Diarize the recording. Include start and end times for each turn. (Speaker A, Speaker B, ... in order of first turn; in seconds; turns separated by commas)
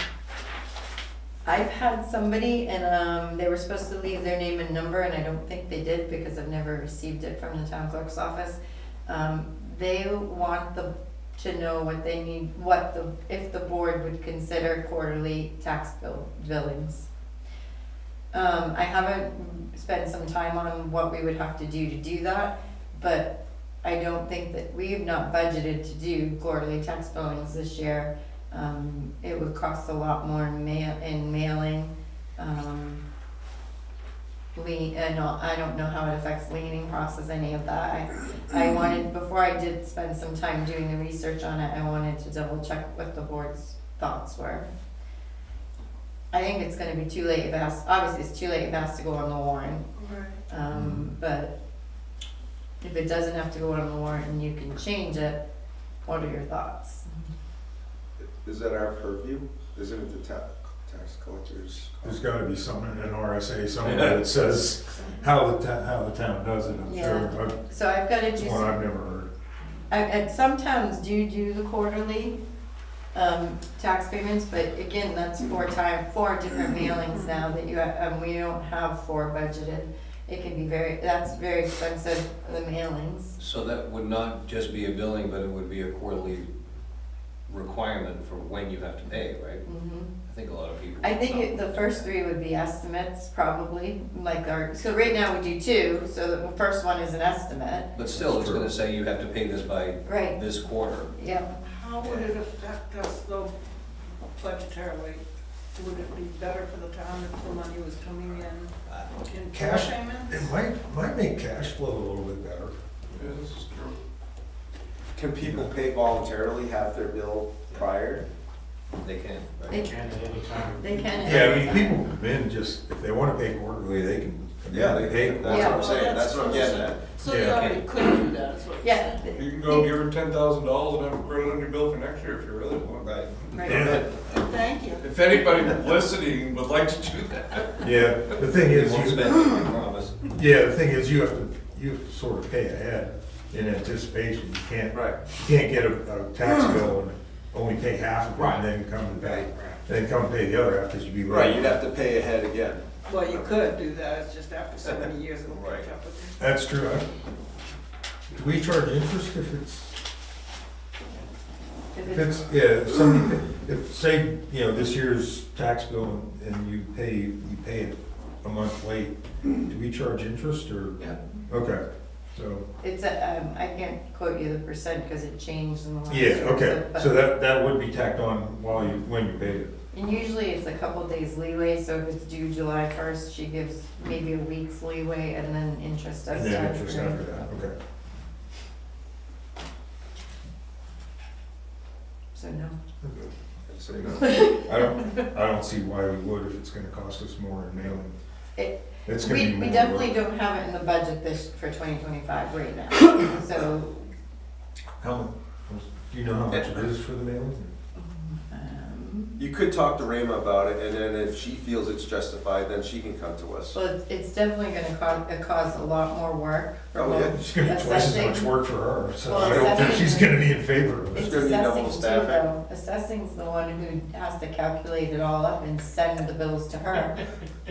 Speaker A: 1.4-17.1, Speaker A: 18.3-33.0, Speaker A: 34.5-44.7, Speaker A: 46.3-49.9, Speaker B: 50.0-50.4, Speaker A: 50.5-51.5, Speaker C: 50.7-51.1, Speaker A: 52.8-55.4, Speaker A: 56.0-57.2, Speaker D: 58.2-62.2, Speaker C: 62.0-67.5, Speaker E: 63.8-64.2, Speaker A: 66.9-68.8, Speaker C: 68.3-69.3, Speaker A: 69.9-72.4, Speaker A: 73.1-83.4, Speaker E: 83.4-86.5, Speaker E: 87.5-89.6, Speaker A: 89.6-90.1, Speaker E: 90.2-92.1, Speaker A: 91.0-97.9, Speaker E: 97.9-101.1, Speaker C: 98.1-98.7, Speaker A: 100.0-100.4, Speaker A: 101.1-101.5, Speaker B: 101.6-103.5, Speaker B: 104.4-105.2, Speaker B: 105.7-110.5, Speaker E: 108.8-109.1, Speaker C: 109.5-112.8, Speaker F: 113.1-114.0, Speaker D: 115.1-118.2, Speaker E: 119.0-119.8, Speaker A: 119.7-120.1, Speaker G: 119.7-121.8, Speaker A: 120.8-122.0, Speaker C: 121.2-125.9, Speaker D: 124.7-127.1, Speaker A: 125.5-125.9, Speaker B: 125.6-129.4, Speaker C: 127.2-127.7, Speaker E: 127.4-127.9, Speaker A: 128.8-129.9, Speaker F: 129.3-133.9, Speaker E: 133.0-134.4, Speaker A: 133.5-133.8, Speaker C: 133.7-134.0, Speaker B: 134.3-135.1, Speaker F: 135.0-137.7, Speaker C: 137.8-139.4, Speaker E: 138.3-140.3, Speaker C: 140.3-151.8, Speaker D: 144.9-145.2, Speaker E: 148.3-148.7, Speaker D: 149.2-149.5, Speaker D: 151.3-153.6, Speaker B: 153.0-156.4, Speaker E: 155.5-155.8, Speaker D: 155.6-155.8, Speaker C: 156.4-157.1, Speaker C: 158.3-159.9, Speaker A: 161.9-162.5, Speaker C: 162.0-172.6, Speaker A: 172.8-177.2, Speaker C: 176.1-179.7, Speaker A: 179.9-187.5, Speaker C: 186.3-187.7, Speaker A: 192.3-192.8, Speaker C: 193.0-193.3, Speaker D: 193.7-194.3, Speaker C: 193.9-198.1, Speaker A: 194.2-194.7, Speaker A: 198.6-204.1, Speaker C: 199.1-200.1, Speaker C: 205.0-207.7, Speaker D: 206.5-206.8, Speaker A: 207.9-209.4, Speaker D: 209.4-213.8, Speaker A: 213.7-218.5, Speaker D: 216.9-217.3, Speaker C: 217.3-221.3, Speaker A: 219.2-220.5, Speaker D: 221.1-222.5, Speaker A: 221.1-227.3